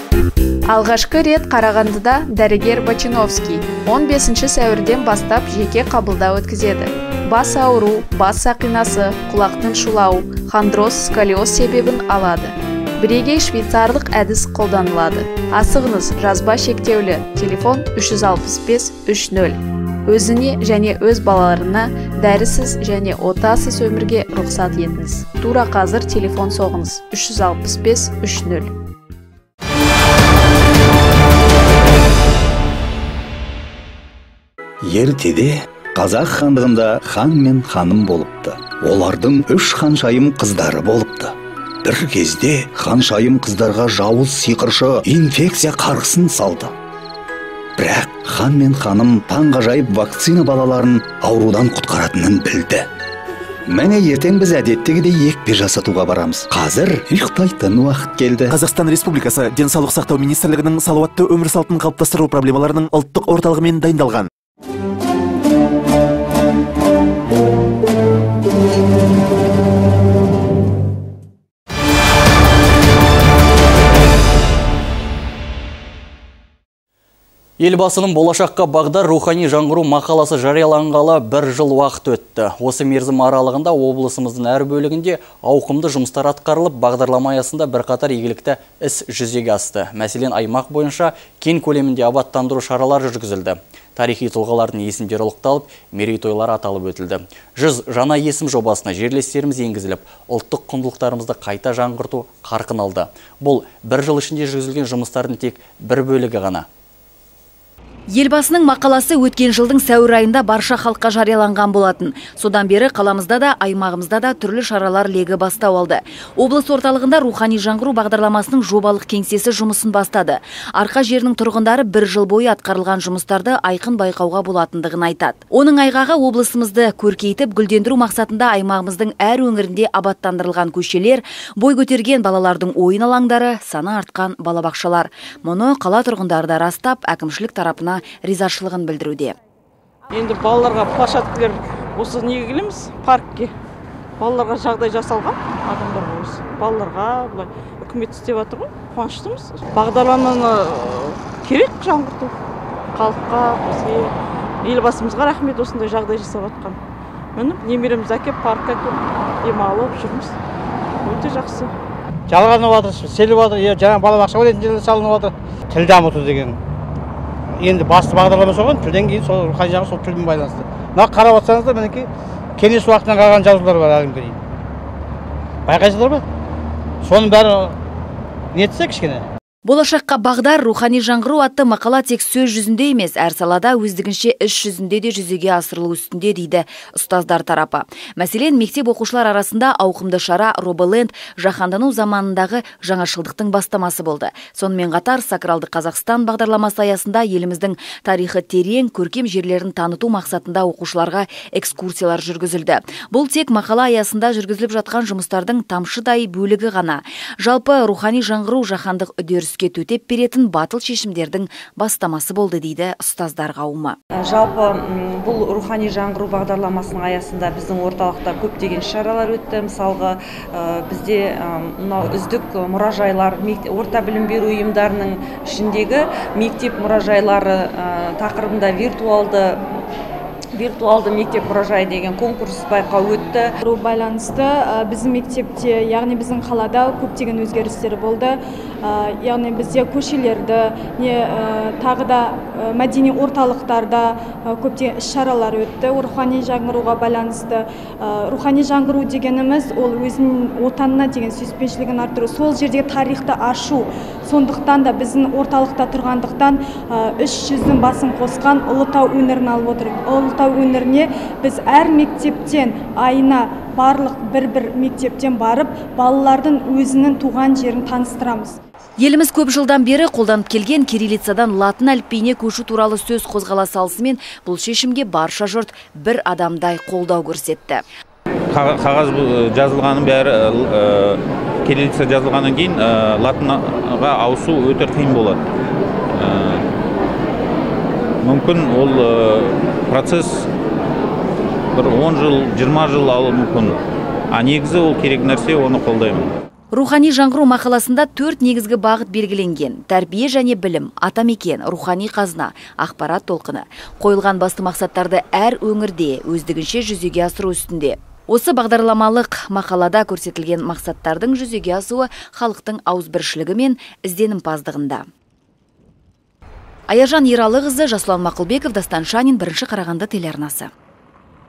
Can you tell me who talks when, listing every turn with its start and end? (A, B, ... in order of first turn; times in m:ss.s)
0:00.7-0:28.7 A
0:34.8-0:46.7 B
0:47.8-0:52.8 B
0:53.7-0:58.6 B
0:58.5-1:04.3 C
1:17.6-1:46.7 D
1:48.1-2:19.4 E
2:20.1-2:23.5 F
2:24.2-2:32.3 F
2:32.9-2:34.1 F
2:34.6-2:36.8 F
2:37.4-2:40.3 F
2:41.0-2:41.7 F
2:42.3-2:46.6 G
2:47.6-2:54.4 G
2:55.7-2:56.2 G
2:57.0-2:57.7 G
2:58.5-2:59.2 G
2:59.7-3:34.0 E
3:34.2-3:49.6 H
3:50.5-3:53.5 H
3:53.6-4:28.6 I
4:29.0-4:37.8 E
4:38.5-4:45.4 J
4:46.1-4:46.6 J
4:48.2-4:50.5 J
4:51.7-4:53.8 J
4:54.3-4:56.3 J
4:56.7-5:15.1 E
5:16.9-5:20.7 E